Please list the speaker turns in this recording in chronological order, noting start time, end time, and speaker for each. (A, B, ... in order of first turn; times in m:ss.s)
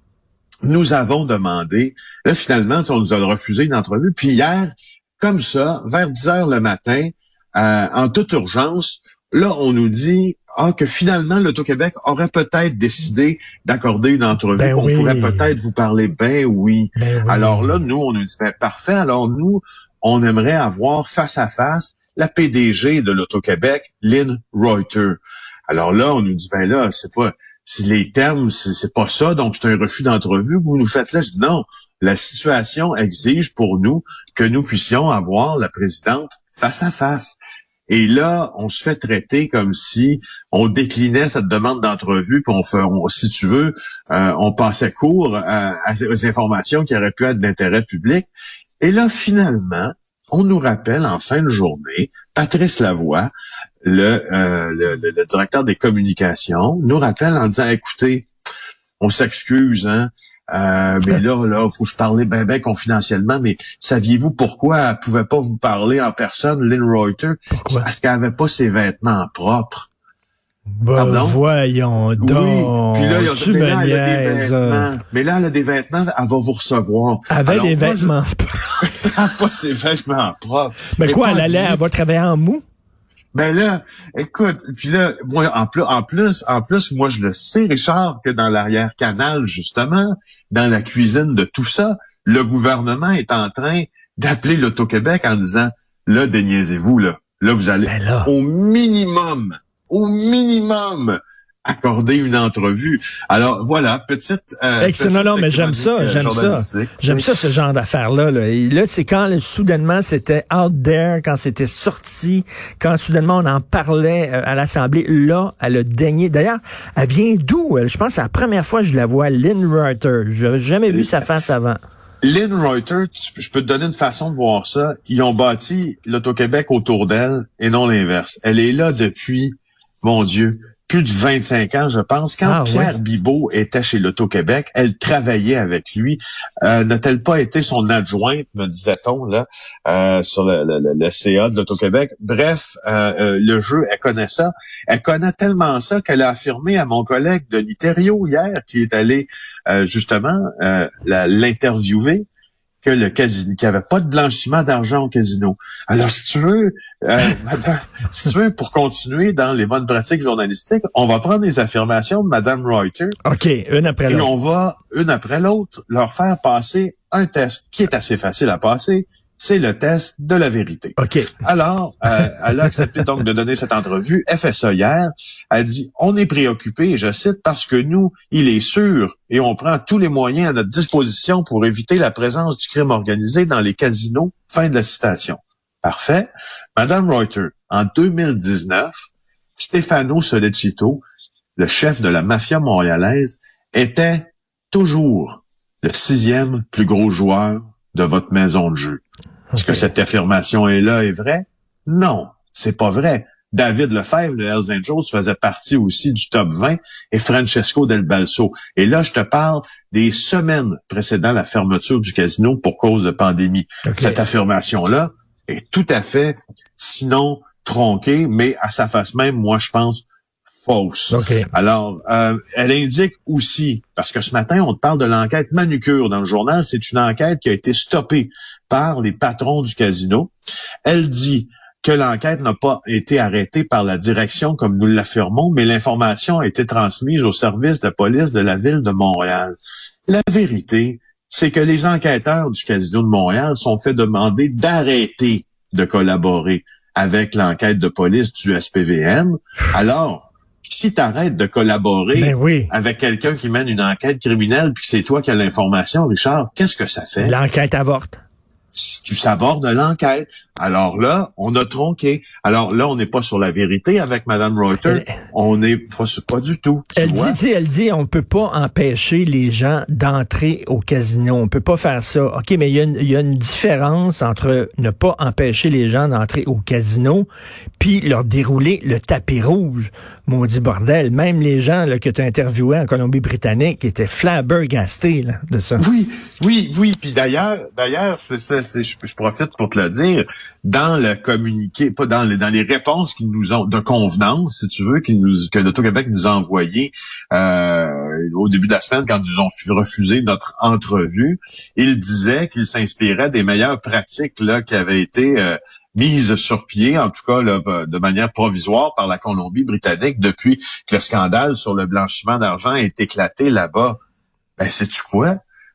0:00.6-0:48.3 A
0:14.6-0:15.5 B
0:17.0-0:17.8 B
0:48.8-0:53.3 A
0:53.8-0:58.3 A
0:59.0-1:09.9 A
1:07.5-1:07.8 B
1:10.8-1:14.9 B
1:10.9-1:11.4 A
1:12.2-1:18.1 A
1:17.3-1:18.8 B
1:18.8-1:21.8 A
1:20.9-1:22.6 B
1:23.3-1:47.3 A
1:37.8-1:38.3 B
1:44.8-2:01.8 B
2:00.9-2:01.2 A
2:02.2-2:32.2 A
2:12.4-2:12.9 B
2:32.8-2:43.2 A
2:43.2-2:44.3 B
2:44.1-3:11.0 A
2:51.0-2:51.4 B
3:11.6-3:19.0 A
3:19.5-3:19.8 B
3:19.5-3:40.0 A
3:33.8-3:34.2 B
3:40.6-3:50.3 A
3:41.1-3:41.5 B
3:50.8-3:59.5 A
4:00.1-4:17.4 A
4:12.1-4:12.7 B
4:17.2-4:18.2 B
4:18.7-4:27.4 A
4:24.8-4:25.1 B
4:27.0-4:37.3 B
4:37.8-4:45.8 B
4:45.8-5:14.0 A
5:14.6-5:15.4 A